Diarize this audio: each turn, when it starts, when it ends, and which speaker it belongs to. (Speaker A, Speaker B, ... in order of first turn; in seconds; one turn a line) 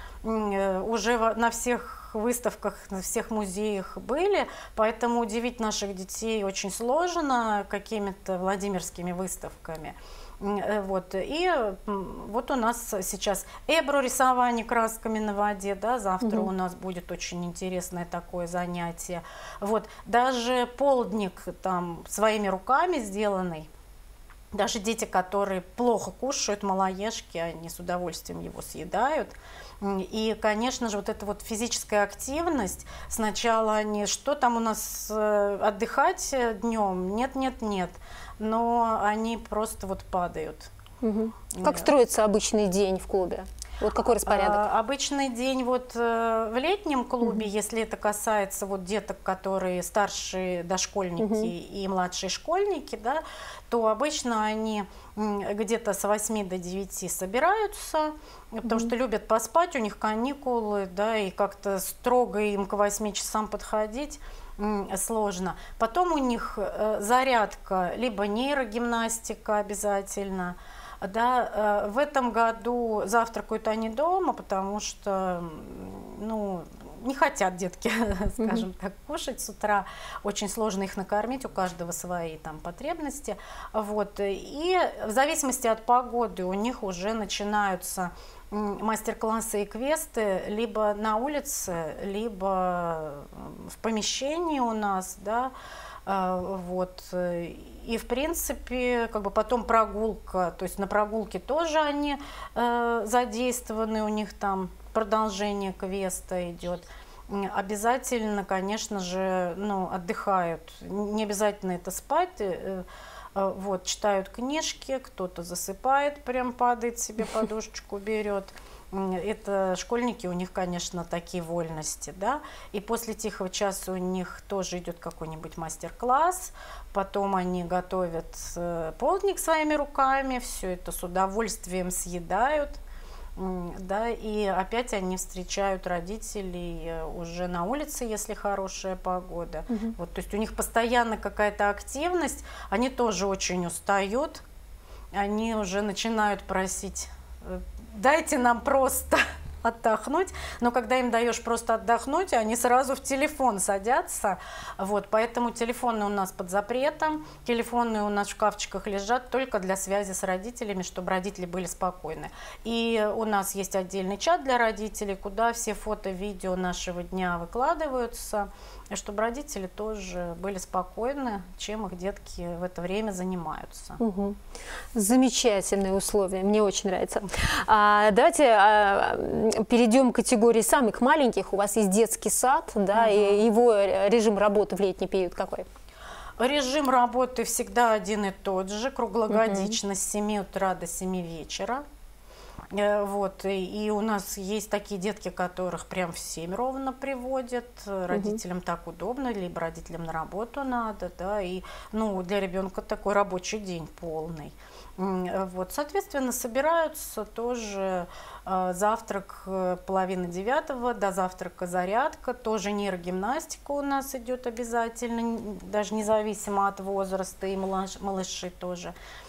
Speaker A: 0.2-23.7
Speaker B: 16.2-16.5
Speaker A: 24.5-40.7
Speaker B: 41.0-44.6
Speaker A: 41.5-41.9
Speaker A: 44.2-95.5
Speaker B: 51.2-51.5
Speaker A: 96.0-132.8
Speaker A: 133.3-144.4
Speaker B: 139.7-139.9
Speaker A: 145.1-174.0
Speaker B: 174.0-174.4
Speaker B: 174.9-185.7
Speaker A: 182.9-183.4
Speaker A: 186.4-191.8
Speaker B: 189.3-189.7
Speaker A: 192.7-218.9
Speaker B: 198.1-198.4